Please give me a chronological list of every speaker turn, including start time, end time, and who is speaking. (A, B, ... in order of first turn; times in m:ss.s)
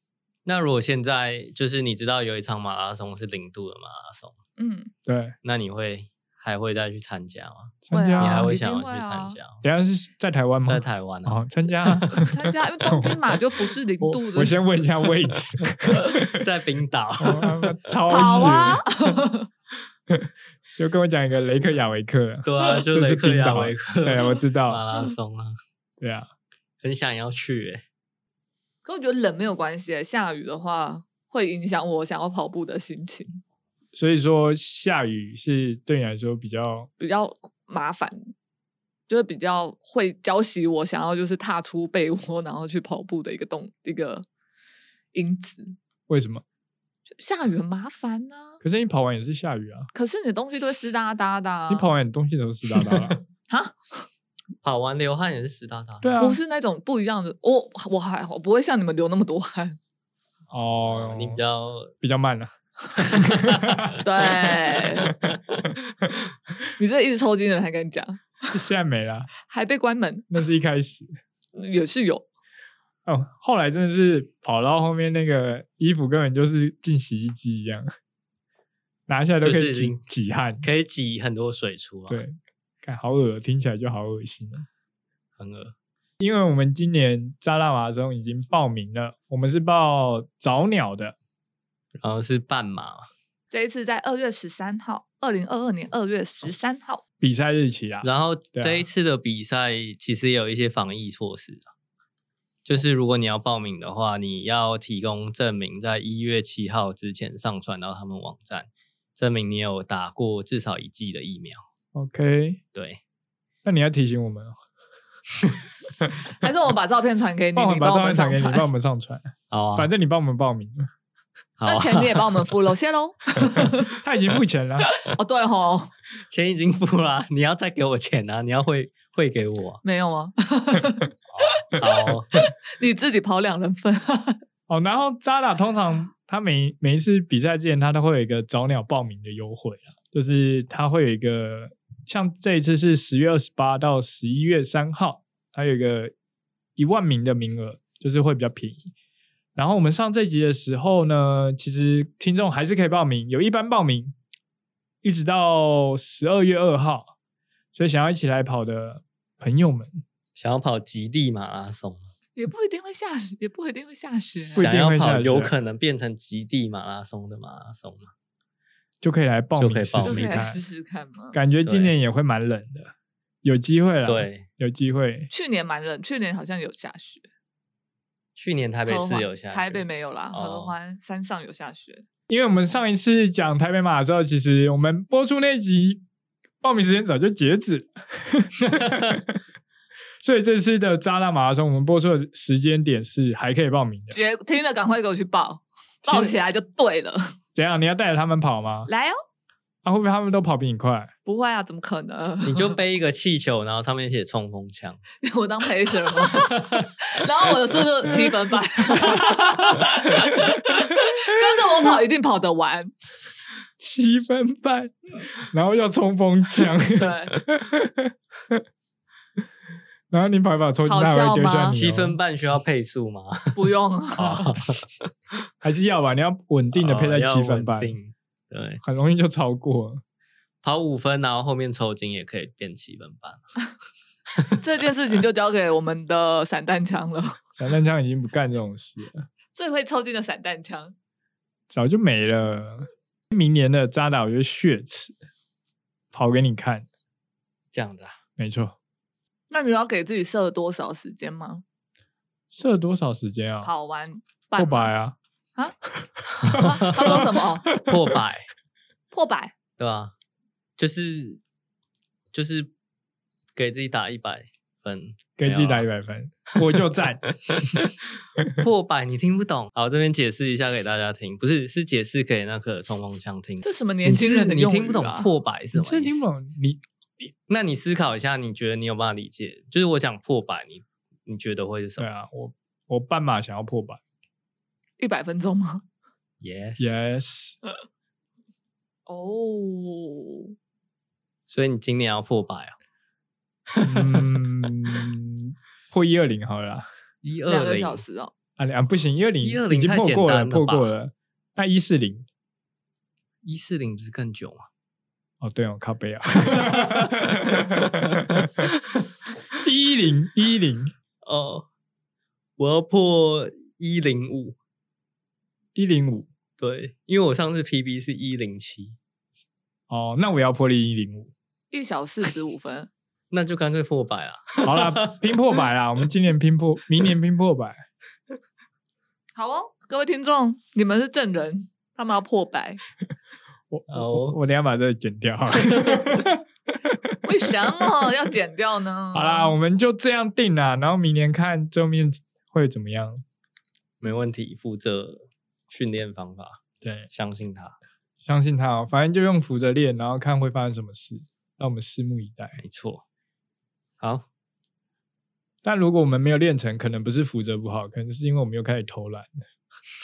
0:00.4-0:04.3 A
0:04.6-0:04.9 B
0:05.0-0:05.4 C
0:05.4-0:09.6 A
0:07.8-0:08.5 C
0:07.9-0:09.4 B
0:09.6-0:13.2 C
0:10.6-0:12.2 A
0:12.3-0:14.6 B
0:14.0-0:16.4 C
0:16.3-0:18.0 A
0:17.2-0:19.1 C
0:18.1-0:19.5 B
0:20.1-0:24.8 C
0:22.4-0:25.6 A
0:26.0-0:26.3 C
0:26.8-0:27.8 A
0:28.8-0:33.4 B
0:33.9-0:36.9 C
0:37.0-0:38.3 B
0:39.1-0:44.2 B
0:45.1-0:45.8 B
0:46.1-0:46.4 C
0:47.2-0:48.6 B
0:48.6-0:49.9 C
0:49.9-0:51.9 B
0:51.7-0:53.2 C
0:52.8-0:53.2 A
0:53.5-0:54.0 B
0:54.6-0:56.1 A
0:56.0-0:56.4 C
0:56.2-0:59.8 B
1:00.5-1:01.4 C
1:00.8-1:01.9 A
1:02.0-1:04.0 C
1:04.0-1:05.1 B
1:05.0-1:05.6 A
1:06.8-1:08.6 B
1:08.5-1:09.3 C
1:09.4-1:10.3 B
1:10.3-1:11.1 C
1:11.6-1:12.3 B
1:13.0-1:17.9 C
1:19.1-1:20.6 C
1:19.4-1:20.0 A
1:20.6-1:22.2 A
1:22.1-1:24.7 C
1:25.4-1:25.7 A
1:26.2-1:31.2 C
1:32.0-1:33.1 A
1:33.5-1:37.0 B
1:37.2-1:38.9 C
1:38.0-1:41.7 A
1:42.6-1:51.6 A
1:51.9-1:52.6 C
1:52.7-1:53.0 A
1:53.6-1:54.6 C
1:56.4-1:58.7 B
1:57.6-2:00.9 C
1:59.5-1:59.9 A
2:01.6-2:02.5 A
2:01.6-2:03.9 B
2:04.0-2:04.9 C
2:04.8-2:05.9 B
2:06.3-2:09.8 A
2:09.8-2:11.1 B
2:11.3-2:12.4 A
2:12.8-2:14.4 B
2:14.7-2:26.1 C
2:26.8-2:28.9 C
2:29.6-2:34.2 C
2:35.0-2:37.1 C
2:37.7-2:40.0 C
2:40.4-2:42.0 A
2:42.4-2:44.7 B
2:44.5-2:45.5 C
2:44.6-2:48.1 A
2:49.0-2:50.6 C
2:49.6-2:50.4 A
2:50.0-2:51.4 B
2:51.3-2:52.9 C
2:51.6-2:51.9 A
2:53.4-2:55.3 C
2:54.0-2:54.5 A
2:55.3-2:57.2 B
2:58.4-3:00.7 A
2:58.8-3:02.0 B
3:02.3-3:06.0 C
3:06.6-3:09.4 C
3:10.2-3:14.2 C
3:14.1-3:17.3 B
3:16.0-3:16.4 C
3:17.5-3:18.9 C
3:18.9-3:19.2 B
3:19.8-3:21.1 C
3:21.2-3:22.7 B
3:22.4-3:25.0 A
3:25.2-3:32.9 B
3:26.4-3:26.9 A
3:28.9-3:29.9 C
3:30.4-3:31.4 C
3:33.8-3:38.6 C
3:36.9-3:37.3 B
3:40.1-3:42.2 C
3:40.8-3:41.8 B
3:41.7-3:45.1 A
3:43.6-3:44.5 B
3:45.6-3:47.9 C
3:46.7-3:48.8 A
3:48.8-3:50.0 C
3:50.6-3:53.4 A
3:54.6-3:57.4 B
3:57.6-3:59.3 C
3:59.5-4:00.9 B
4:01.7-4:05.2 C
4:06.1-4:06.8 C
4:07.7-4:08.2 A
4:08.4-4:08.8 C
4:09.5-4:11.6 B
4:12.5-4:13.7 C
4:13.6-4:14.9 B
4:14.6-4:15.2 C
4:16.0-4:18.2 C
4:16.3-4:18.5 A
4:16.5-4:17.7 B
4:19.1-4:19.5 B
4:19.8-4:20.1 A
4:20.8-4:21.4 A
4:22.3-4:22.7 A
4:23.5-4:25.9 A
4:25.4-4:27.9 C
4:27.3-4:36.2 A
4:33.6-4:35.3 B
4:35.7-4:37.3 C
4:37.5-4:42.1 A
4:42.0-4:44.0 C
4:45.0-4:45.8 B
4:46.4-4:47.2 A
4:46.8-4:47.6 C
4:49.1-4:50.5 B
4:51.5-4:52.7 A
4:53.7-4:55.0 A
4:53.8-4:56.9 C
4:57.2-4:58.0 A
4:57.5-4:58.3 B
4:58.6-5:02.2 C
4:59.4-5:00.9 A
5:03.4-5:04.7 A
5:05.4-5:08.7 C
5:06.4-5:08.7 A
5:09.6-5:10.9 C
5:11.2-5:11.7 A
5:12.6-5:14.6 A
5:15.7-5:16.3 C
5:16.6-5:19.0 A
5:19.9-5:21.3 C
5:21.7-5:22.9 B
5:23.3-5:25.6 A
5:24.6-5:27.8 C
5:29.4-5:32.8 B
5:33.7-5:37.2 C
5:33.9-5:34.4 A
5:35.6-5:36.0 A
5:37.2-5:39.5 B
5:39.1-5:43.2 C
5:44.0-5:46.6 A
5:46.8-5:47.1 C
5:47.1-5:47.8 A
5:48.2-5:52.6 C
5:52.6-5:53.0 A
5:54.0-5:54.2 A
5:55.6-5:59.3 C